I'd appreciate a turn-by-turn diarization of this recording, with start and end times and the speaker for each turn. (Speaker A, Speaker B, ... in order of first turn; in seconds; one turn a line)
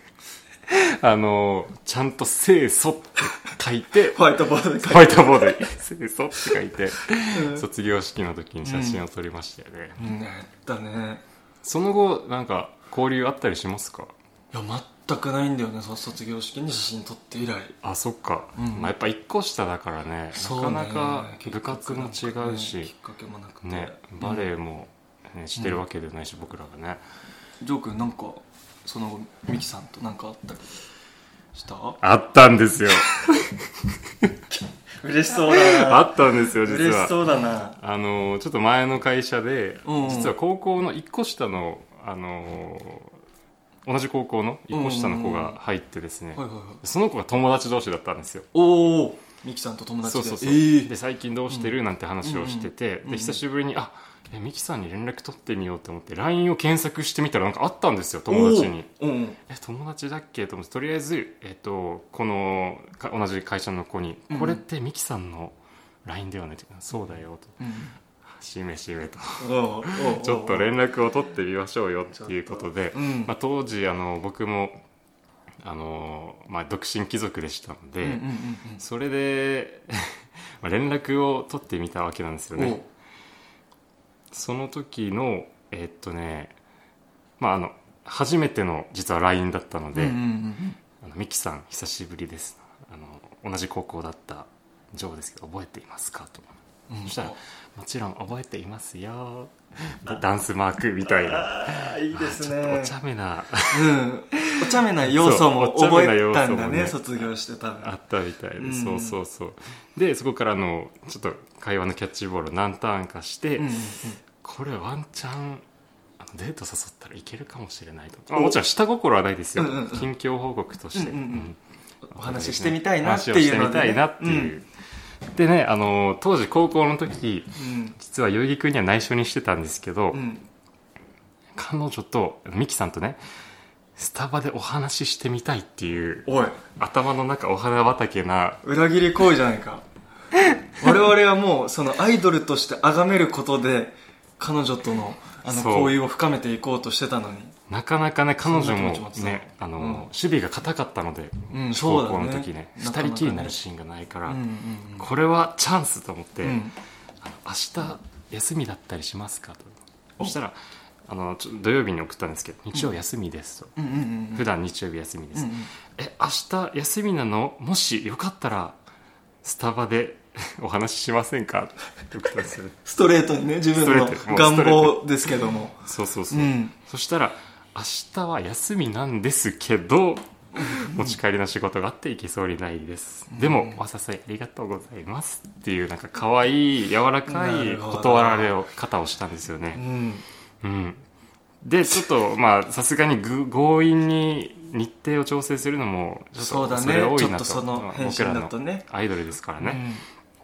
Speaker A: 0.7-4.2
Speaker B: 4.1-5.6
Speaker A: 4.8-10.0
Speaker B: 7.3-7.6
Speaker B: 8.6-9.0
Speaker B: 10.0-11.2
Speaker A: 11.6-14.1
Speaker B: 14.5-17.8
Speaker A: 17.8-22.9
Speaker B: 18.6-18.9
Speaker B: 20.3-24.5
Speaker A: 23.6-27.0
Speaker B: 27.6-30.8
Speaker B: 31.5-32.0
Speaker A: 32.0-33.5
Speaker B: 34.5-37.8
Speaker A: 35.5-37.1
Speaker A: 37.8-43.1
Speaker B: 39.8-40.4
Speaker A: 43.8-48.5
Speaker B: 44.7-45.6
Speaker B: 46.4-46.8
Speaker B: 48.5-50.9
Speaker A: 50.0-58.9
Speaker B: 51.5-53.4
Speaker B: 58.3-59.4
Speaker A: 59.5-67.6
Speaker B: 64.3-64.6
Speaker B: 67.6-68.0
Speaker A: 68.2-74.8
Speaker B: 69.4-70.7
Speaker B: 72.2-73.3
Speaker A: 75.6-78.2
Speaker B: 78.0-78.8
Speaker A: 78.8-82.8
Speaker B: 82.5-82.9
Speaker A: 84.3-86.5
Speaker A: 87.4-90.2
Speaker B: 89.9-90.8
Speaker A: 91.0-96.5
Speaker B: 96.9-97.4
Speaker A: 97.0-103.9
Speaker B: 101.1-102.9
Speaker B: 103.7-107.9
Speaker A: 104.4-107.3
Speaker A: 107.8-113.8
Speaker B: 108.6-109.2
Speaker B: 113.6-114.2
Speaker A: 114.4-115.6
Speaker A: 116.2-121.6
Speaker B: 118.3-118.6
Speaker B: 119.6-120.1
Speaker B: 120.9-121.5
Speaker B: 122.0-124.5
Speaker A: 122.1-124.7
Speaker A: 125.3-130.2
Speaker B: 127.6-128.0
Speaker B: 130.1-130.5
Speaker A: 131.5-133.2
Speaker A: 134.0-138.6
Speaker B: 136.2-136.6
Speaker B: 138.6-139.8
Speaker B: 140.8-147.5
Speaker A: 145.5-146.0
Speaker A: 147.7-154.4
Speaker B: 148.4-150.1
Speaker B: 151.5-153.6
Speaker B: 154.3-155.1
Speaker A: 155.0-156.6
Speaker B: 156.4-156.7
Speaker A: 157.2-163.7
Speaker B: 163.8-164.4
Speaker A: 164.3-168.8
Speaker B: 165.3-165.7
Speaker A: 169.4-172.8
Speaker B: 172.8-176.7
Speaker A: 173.7-175.0
Speaker A: 175.8-189.8
Speaker B: 180.6-181.2
Speaker B: 183.3-183.8
Speaker B: 187.3-188.5
Speaker B: 189.7-190.2
Speaker A: 190.6-191.0
Speaker A: 191.6-199.8
Speaker B: 196.4-198.8
Speaker B: 199.6-200.0